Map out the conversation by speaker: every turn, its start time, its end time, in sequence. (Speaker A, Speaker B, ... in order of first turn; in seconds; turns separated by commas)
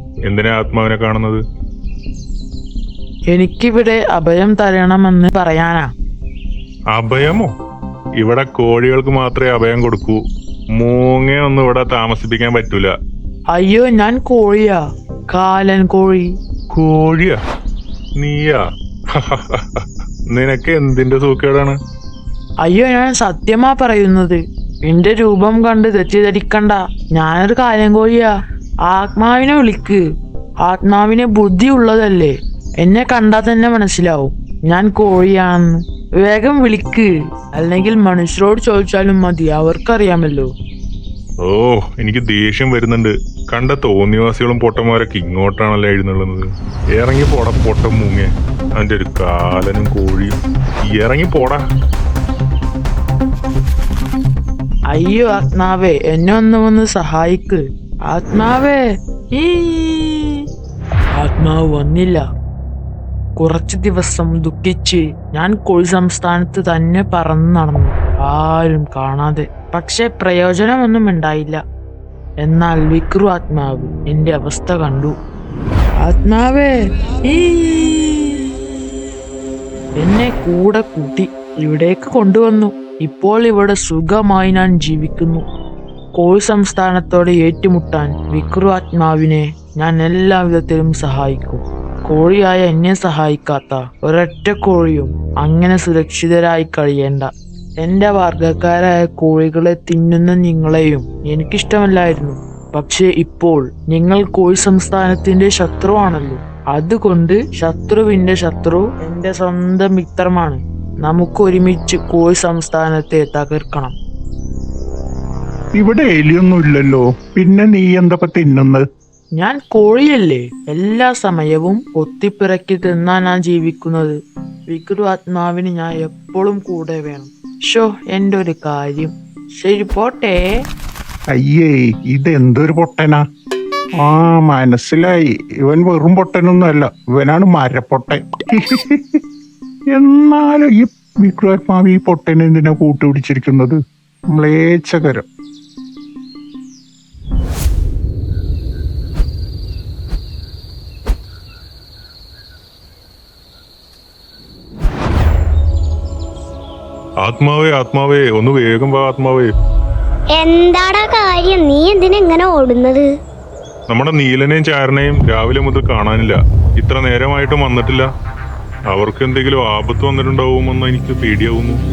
Speaker A: 0.3-1.4, Speaker B: 3.3-5.9, Speaker A: 6.9-7.5, Speaker A: 8.2-10.2, Speaker A: 10.8-12.9, Speaker B: 13.5-14.8, Speaker B: 15.3-16.3, Speaker A: 16.7-17.4, Speaker A: 18.2-18.6, Speaker A: 19.1-21.8, Speaker B: 22.6-28.3, Speaker B: 28.9-30.0, Speaker B: 30.6-40.5, Speaker A: 41.5-46.5, Speaker A: 47.0-50.3, Speaker A: 50.9-51.6, Speaker B: 54.9-58.8, Speaker B: 59.4-60.4, Speaker B: 61.2-62.2, Speaker B: 63.4-71.6, Speaker B: 72.4-75.1, Speaker B: 76.0-76.8, Speaker B: 77.3-78.4, Speaker B: 80.0-85.4, Speaker B: 86.2-97.3, Speaker B: 97.8-114.0, Speaker C: 115.8-118.8, Speaker B: 119.4-124.2, Speaker B: 124.7-130.4, Speaker C: 131.3-133.2, Speaker C: 134.0-139.2, Speaker C: 139.9-143.8, Speaker C: 144.3-145.3, Speaker A: 157.2-159.5, Speaker D: 160.3-163.1, Speaker A: 163.9-168.1, Speaker A: 168.9-171.8